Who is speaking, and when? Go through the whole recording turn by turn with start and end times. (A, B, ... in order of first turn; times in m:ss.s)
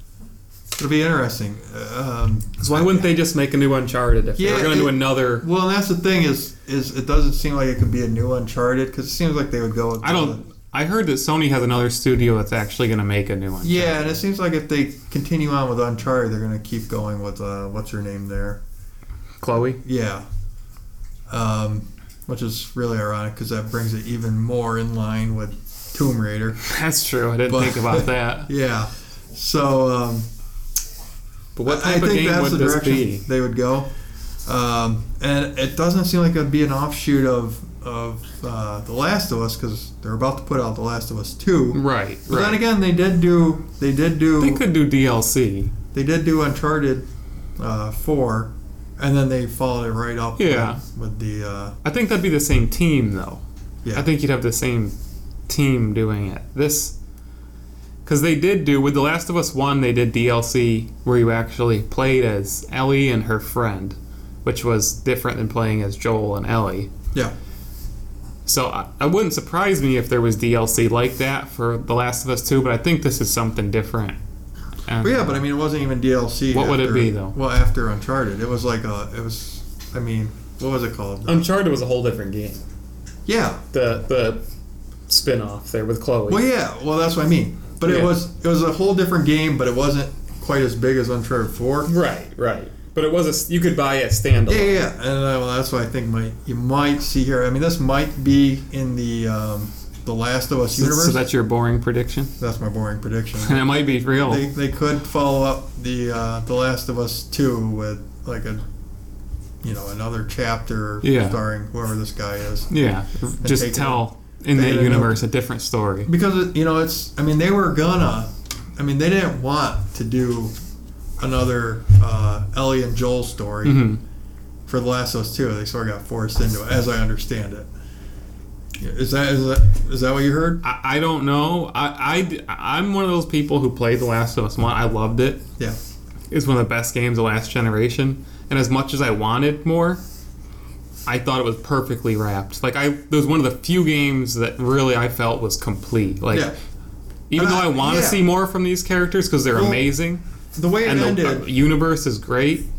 0:00.8-0:03.1 A
0:02.6-0:05.4 B
0:04.4-0:10.4 A
0:10.0-0:14.0 B
0:13.6-0:18.6 A
0:19.4-0:19.8 B
0:19.8-0:20.2 A
0:21.3-0:26.6 A
0:26.6-0:28.5 B
0:27.5-0:30.2 A
0:31.6-0:33.3 B
0:31.6-0:33.9 A
0:34.4-0:44.6 A
0:41.7-0:42.6 B
0:44.4-0:45.7 B
0:45.9-0:47.0 A
0:47.6-0:51.7 A
0:50.4-0:50.8 B
0:51.8-0:53.4 B
0:53.9-0:54.9 B
0:55.5-0:56.9 B
0:58.0-1:06.9 B
1:08.4-1:14.2 B
1:14.9-1:15.4 B
1:15.0-1:21.4 A
1:16.5-1:17.3 B
1:21.2-1:22.6 B
1:23.2-1:23.6 A
1:23.7-1:24.4 B
1:25.1-1:26.4 B
1:26.3-1:31.9 A
1:27.8-1:28.2 B
1:31.8-1:34.8 B
1:34.5-1:41.2 A
1:40.7-1:42.3 B
1:42.4-1:48.6 A
1:43.4-1:44.5 B
1:49.6-1:52.7 A
1:51.0-1:51.4 B
1:52.7-1:56.1 B
1:53.4-1:55.2 A
1:56.1-2:00.5 A
2:01.2-2:03.8 A
2:03.6-2:04.0 B
2:04.7-2:07.7 A
2:08.8-2:10.6 A
2:10.6-2:15.4 B
2:16.3-2:20.0 B
2:21.1-2:26.5 B
2:27.3-2:30.2 B
2:27.3-2:28.2 A
2:29.5-2:29.8 A
2:30.5-2:31.5 A
2:30.8-2:32.6 B